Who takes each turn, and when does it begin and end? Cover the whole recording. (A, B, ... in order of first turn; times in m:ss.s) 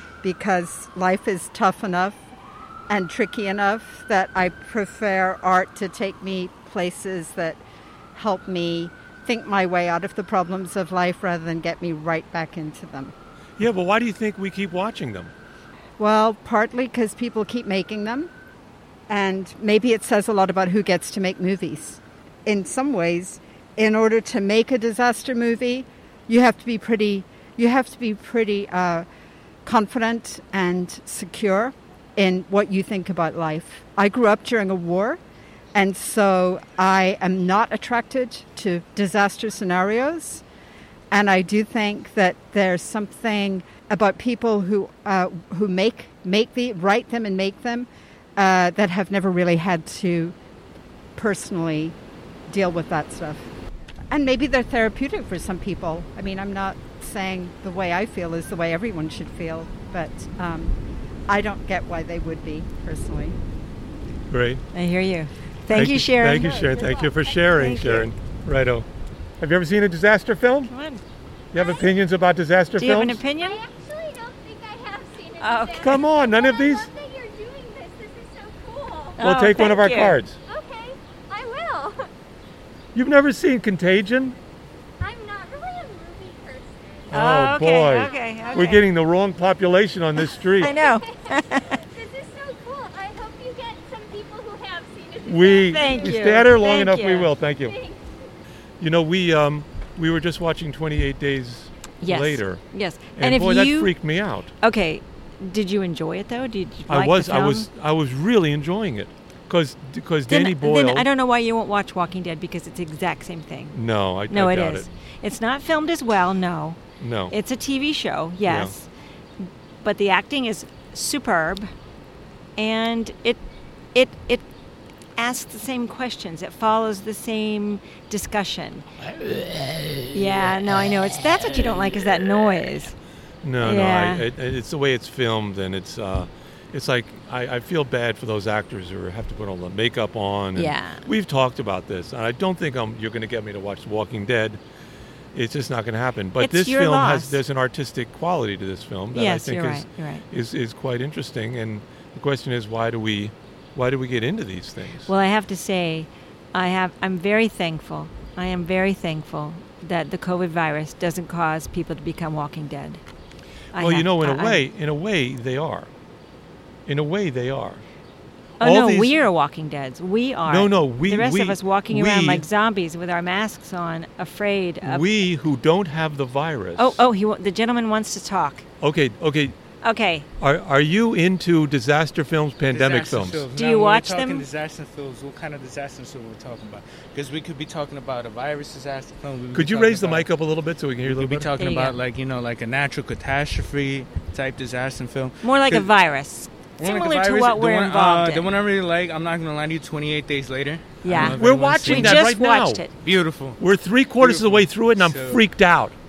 0:00.2-0:02.2 A
0:02.9-0:07.6 A
0:08.2-0:13.1 A
0:13.6-0:15.3 B
0:16.0-0:18.3 A
0:19.1-0:29.1 A
0:29.6-0:35.2 A
0:35.7-0:40.4 A
0:41.1-0:50.4 A
0:51.2-0:52.0 A
0:52.5-0:53.5 A
0:54.1-1:00.8 A
1:01.3-1:03.4 A
1:04.3-1:04.6 B
1:04.7-1:08.1 C
1:05.7-1:08.9 B
1:09.4-1:10.7 B
1:10.7-1:11.0 C
1:11.5-1:13.2 B
1:11.5-1:11.9 D
1:12.8-1:13.6 C
1:13.3-1:19.2 D
1:15.4-1:16.0 C
1:15.8-1:16.9 B
1:19.2-1:20.2 C
1:19.2-1:20.4 B
1:20.5-1:22.1 D
1:22.9-1:24.4 B
1:25.0-1:27.1 D
1:27.1-1:30.7 B
1:27.1-1:28.8 C
1:27.8-1:28.8 D
1:30.4-1:36.4 D
1:30.6-1:31.8 C
1:35.2-1:37.8 B
1:35.7-1:37.3 C
1:37.6-1:38.0 D
1:38.8-1:42.6 B
1:42.0-1:44.0 C
1:43.2-1:44.5 B
1:44.6-1:47.7 C
1:46.9-1:51.1 B
1:50.3-1:53.8 C
1:53.7-1:54.9 B
1:54.3-1:58.9 C
1:57.0-1:57.3 B
1:58.4-1:58.7 B
1:59.4-2:01.7 C
2:02.6-2:03.4 C
2:03.9-2:04.4 C
2:05.2-2:08.9 C
2:10.1-2:13.0 C
2:13.4-2:24.6 B
2:13.6-2:14.2 C
2:20.6-2:21.1 C
2:25.3-2:35.1 B
2:26.4-2:27.4 C
2:29.1-2:30.2 C
2:35.1-2:43.0 C
2:43.7-2:44.6 C
2:43.7-2:45.9 B
2:46.9-2:47.8 B
2:48.6-2:49.2 B
2:48.6-2:55.0 C
2:50.5-2:52.4 B
2:54.8-2:57.0 B
2:56.8-2:58.6 C
2:58.8-2:59.6 B
2:59.8-3:00.3 C
3:00.4-3:03.5 B
3:02.7-3:10.3 E
3:03.6-3:04.5 C
3:09.5-3:11.6 B
3:11.0-3:15.9 E
3:11.6-3:12.0 C
3:15.4-3:18.5 C
3:16.8-3:22.3 E
3:21.0-3:22.9 C
3:21.3-3:22.9 B
3:23.0-3:23.6 E
3:23.6-3:26.0 B
3:24.2-3:25.4 E